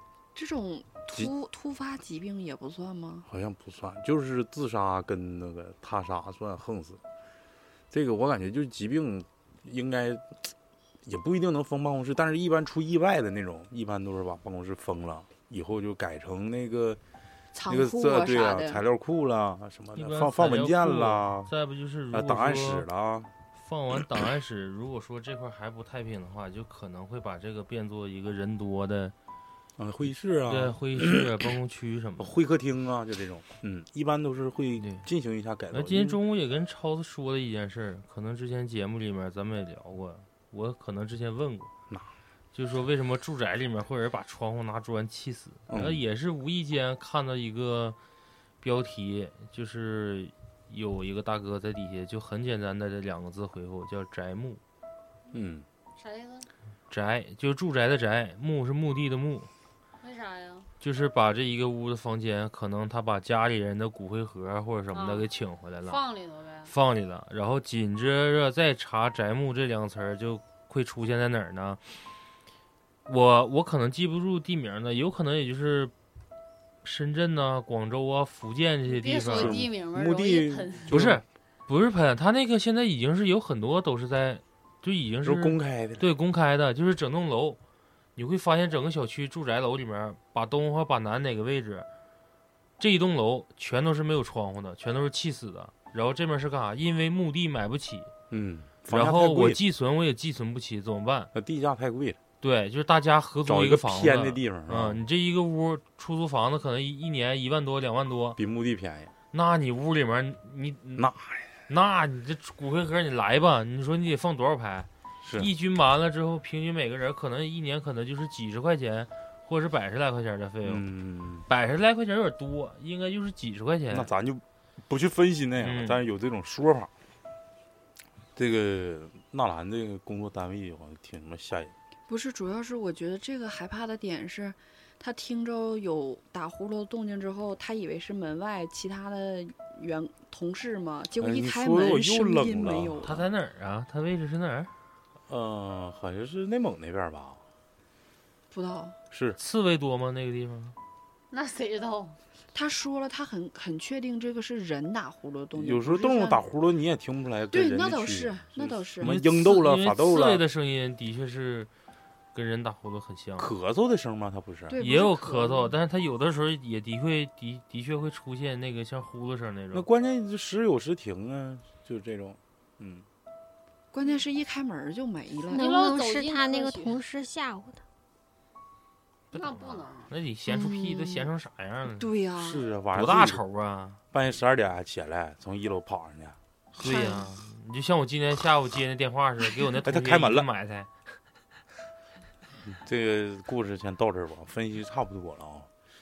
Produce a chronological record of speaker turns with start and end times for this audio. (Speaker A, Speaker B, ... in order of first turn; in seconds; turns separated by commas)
Speaker A: 0.3-3.3, Speaker B: 3.3-7.0, Speaker B: 7.9-10.4, Speaker B: 11.1-17.0, Speaker A: 17.5-18.8, Speaker B: 17.7-21.5, Speaker C: 20.0-22.9, Speaker B: 22.1-23.3, Speaker C: 23.6-29.1, Speaker B: 29.8-31.3, Speaker C: 30.5-32.3, Speaker B: 32.2-36.2, Speaker C: 34.8-35.0, Speaker C: 35.7-41.7, Speaker C: 42.5-48.0, Speaker B: 45.7-46.0, Speaker C: 48.6-54.6, Speaker B: 55.3-55.6, Speaker D: 56.0-56.5, Speaker C: 56.9-59.5, Speaker D: 60.0-60.7, Speaker C: 60.8-66.0, Speaker D: 64.9-65.3, Speaker D: 65.9-66.7, Speaker C: 66.7-71.8, Speaker C: 73.1-75.9, Speaker C: 76.8-79.6, Speaker D: 78.9-80.9, Speaker B: 79.3-81.2, Speaker C: 80.9-87.6, Speaker B: 85.2-86.1, Speaker C: 88.2-91.9, Speaker C: 92.8-98.1, Speaker B: 98.3-99.6, Speaker C: 98.9-101.3, Speaker B: 101.3-102.2, Speaker C: 102.4-108.4, Speaker B: 103.5-105.0, Speaker B: 108.4-109.1, Speaker C: 109.3-111.1, Speaker B: 111.0-111.4, Speaker C: 111.7-120.9, Speaker B: 115.2-115.5, Speaker B: 120.7-121.5, Speaker C: 121.5-124.1, Speaker B: 123.9-126.9, Speaker C: 125.6-126.0, Speaker B: 128.4-131.7, Speaker A: 132.1-143.2, Speaker B: 141.2-143.2, Speaker C: 143.0-144.7, Speaker B: 145.3-147.4, Speaker A: 148.5-149.0, Speaker B: 149.1-149.4, Speaker C: 149.4-150.8, Speaker D: 151.3-152.2, Speaker A: 152.5-156.4, Speaker B: 155.6-160.4, Speaker A: 157.5-159.2, Speaker C: 159.0-161.7, Speaker C: 162.3-163.5, Speaker B: 163.4-164.8, Speaker A: 164.7-165.8, Speaker C: 164.8-169.9, Speaker B: 169.7-173.1, Speaker A: 173.9-175.7, Speaker D: 175.5-177.0, Speaker E: 175.6-177.8, Speaker D: 179.3-180.1, Speaker C: 179.3-182.1, Speaker A: 180.5-181.3, Speaker A: 181.9-182.7, Speaker B: 182.4-183.4, Speaker C: 182.9-184.0, Speaker B: 184.1-186.4, Speaker C: 186.8-190.9, Speaker A: 186.8-187.3, Speaker B: 189.8-190.5, Speaker B: 192.7-195.7